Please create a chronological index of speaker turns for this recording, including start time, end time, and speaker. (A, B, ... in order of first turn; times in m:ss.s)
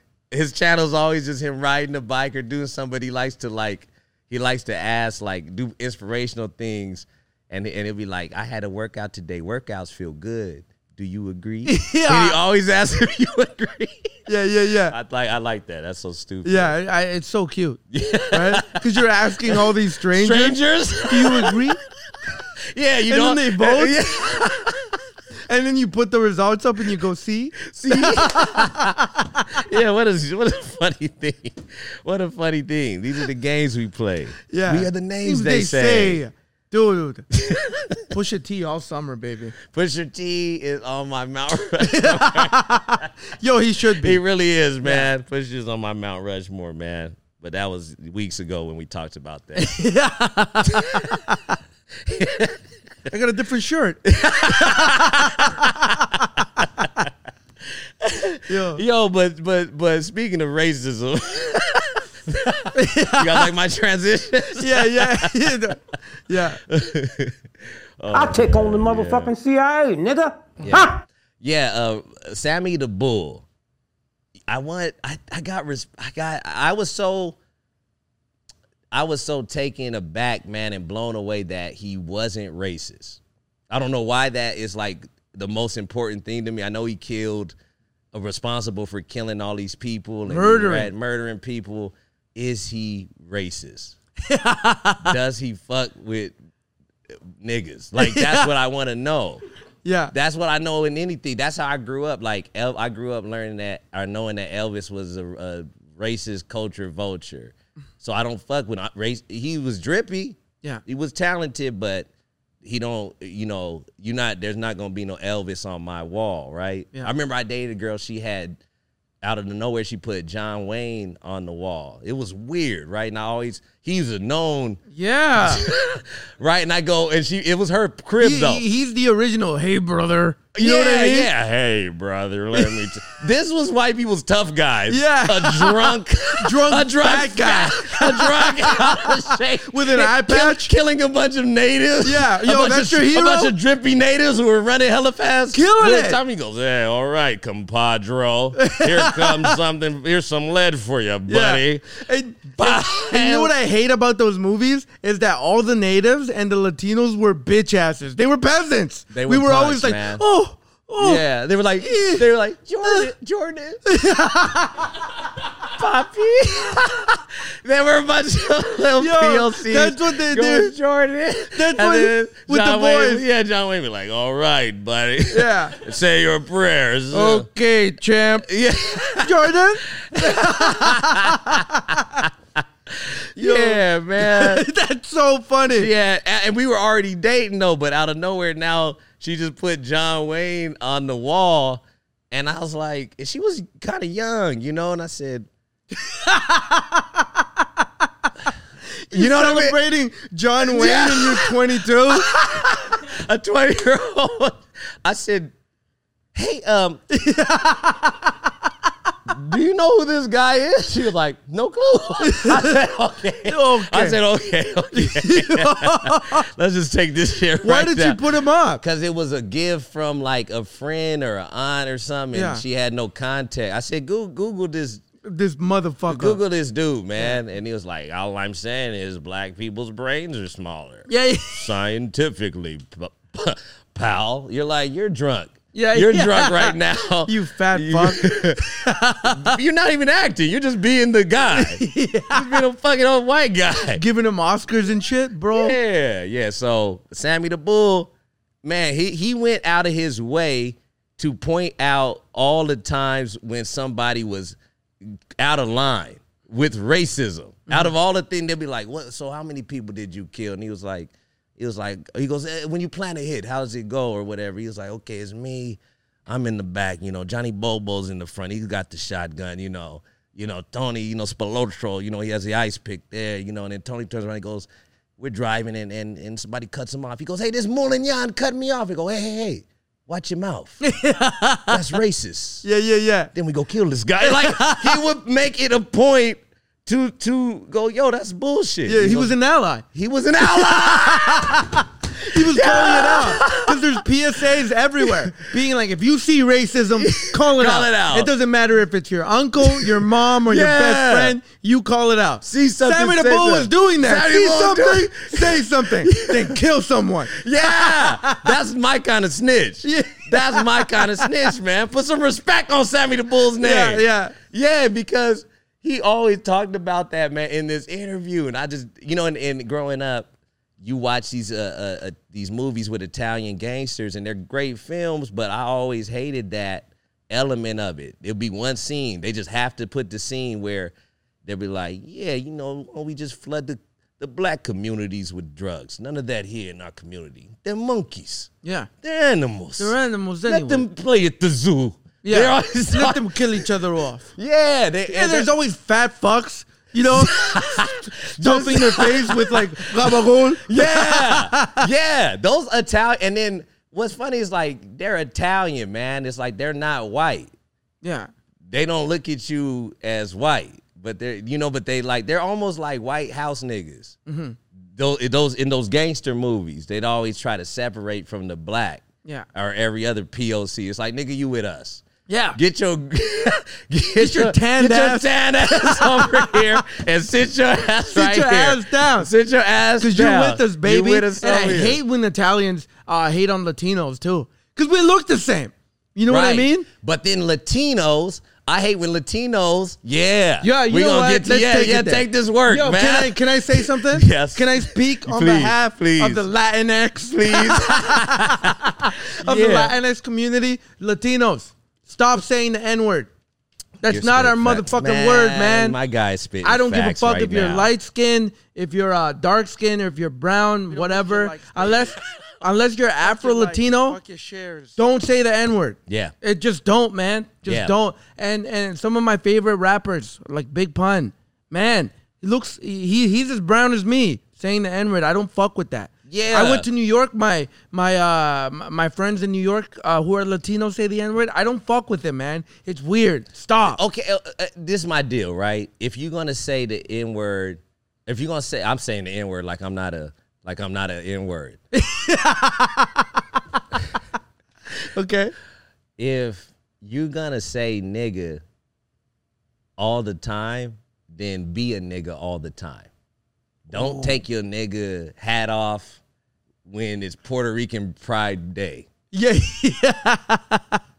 0:00.3-0:14.3 A
0:11.7-0:12.4 B
0:14.3-0:15.0 B
0:14.9-0:16.7 A
0:16.4-0:21.8 B
0:17.9-0:21.8 A
0:22.3-0:25.0 A
0:23.1-0:24.0 B
0:25.5-0:29.5 B
0:27.7-0:36.2 A
0:34.5-0:37.3 B
0:37.4-0:38.1 A
0:38.1-0:39.6 B
0:39.6-0:43.1 A
0:41.8-0:44.2 B
0:44.0-0:49.8 A
0:44.8-0:45.1 B
0:49.6-0:51.6 B
0:50.6-0:51.2 A
0:52.0-0:52.6 A
0:53.1-0:57.0 B
0:54.1-0:57.1 A
0:57.7-1:05.6 A
0:58.5-0:58.8 B
1:02.8-1:03.5 B
1:04.6-1:06.6 B
1:06.7-1:07.4 A
1:08.0-1:09.3 A
1:08.1-1:11.0 C
1:10.6-1:13.4 A
1:14.5-1:17.4 A
1:18.9-1:27.6 A
1:28.1-1:34.0 A
1:30.3-1:30.9 B
1:34.2-1:35.2 B
1:35.0-1:36.4 A
1:37.3-1:39.4 A
1:38.0-1:38.5 B
1:39.8-1:40.1 B
1:40.1-1:52.1 A
1:52.6-1:58.6 A
1:59.2-2:04.8 A
2:04.9-2:05.6 B
2:05.4-2:08.6 A
2:08.2-2:11.3 B
2:10.5-2:31.8 A
2:12.5-2:12.9 B
2:14.9-2:20.7 B
2:22.0-2:23.6 B
2:25.5-2:26.2 B
2:28.6-2:29.6 B
2:31.3-2:41.2 B
2:32.6-2:33.5 A
2:39.1-2:40.2 A
2:41.0-2:43.8 A
2:41.8-2:42.3 B
2:43.9-2:45.0 B
2:45.6-2:57.5 A
2:49.0-2:50.8 B
2:51.5-2:53.2 B
2:55.3-2:55.8 B
2:57.1-2:58.5 B
2:58.4-3:04.7 A
2:59.2-3:02.2 B
3:03.4-3:05.9 B
3:05.7-3:15.5 A
3:15.9-3:17.8 B
3:19.0-3:22.3 B
3:19.1-3:19.8 A
3:20.6-3:25.5 A
3:26.3-3:27.0 A
3:27.1-3:28.5 B
3:29.3-3:38.2 A
3:32.2-3:32.8 B
3:33.5-3:34.2 B
3:34.9-3:36.4 B
3:37.6-3:38.8 B
3:38.8-3:45.0 A
3:42.3-3:42.6 B
3:45.2-3:46.4 B
3:46.1-3:58.7 A
3:51.1-3:51.7 B
3:55.7-3:59.6 B
3:59.2-4:04.0 A
4:01.5-4:02.6 B
4:04.0-4:05.8 B
4:05.5-4:08.1 A
4:08.6-4:40.8 A
4:17.7-4:17.9 B
4:40.8-4:42.0 B
4:41.7-4:42.6 A
4:42.6-4:43.3 B
4:43.3-4:49.4 A
4:44.2-4:45.0 B
4:48.9-4:49.8 B
4:49.9-4:54.0 A
4:50.4-5:08.6 B
4:55.0-4:55.4 A
4:57.0-4:58.3 A
4:59.6-5:01.4 A
5:02.4-5:06.6 A
5:07.3-5:20.3 A
5:09.8-5:11.5 B
5:13.6-5:14.4 B
5:20.8-5:30.9 A
5:31.4-5:38.5 A
5:38.6-5:38.9 B
5:39.0-5:40.0 A
5:39.8-5:40.9 B
5:40.5-5:43.7 A
5:42.2-5:44.3 B
5:44.4-5:45.5 A
5:45.1-5:51.9 B
5:47.1-5:57.5 A
5:58.0-5:58.3 B
5:58.7-6:04.2 A
6:04.3-6:04.6 B
6:05.0-6:12.0 A
6:12.3-6:12.6 B
6:12.6-6:22.0 A
6:14.2-6:16.7 B
6:18.1-6:19.3 B
6:20.0-6:26.9 B
6:26.3-6:36.5 A
6:30.6-6:43.3 B
6:37.3-6:40.0 A
6:44.0-6:46.0 B
6:44.1-6:47.9 A
6:46.6-6:54.2 B
6:50.9-6:52.1 D
6:53.2-6:55.0 D
6:55.0-7:14.0 B
6:56.1-6:56.3 A
6:57.7-6:57.9 A
7:06.3-7:06.9 A
7:13.8-7:21.8 A
7:21.9-7:23.6 B
7:24.9-7:25.5 B
7:26.2-7:28.6 A
7:30.0-7:33.1 A
7:33.9-7:36.2 A
7:33.9-7:34.4 B
7:36.8-7:39.1 A
7:39.3-7:41.0 B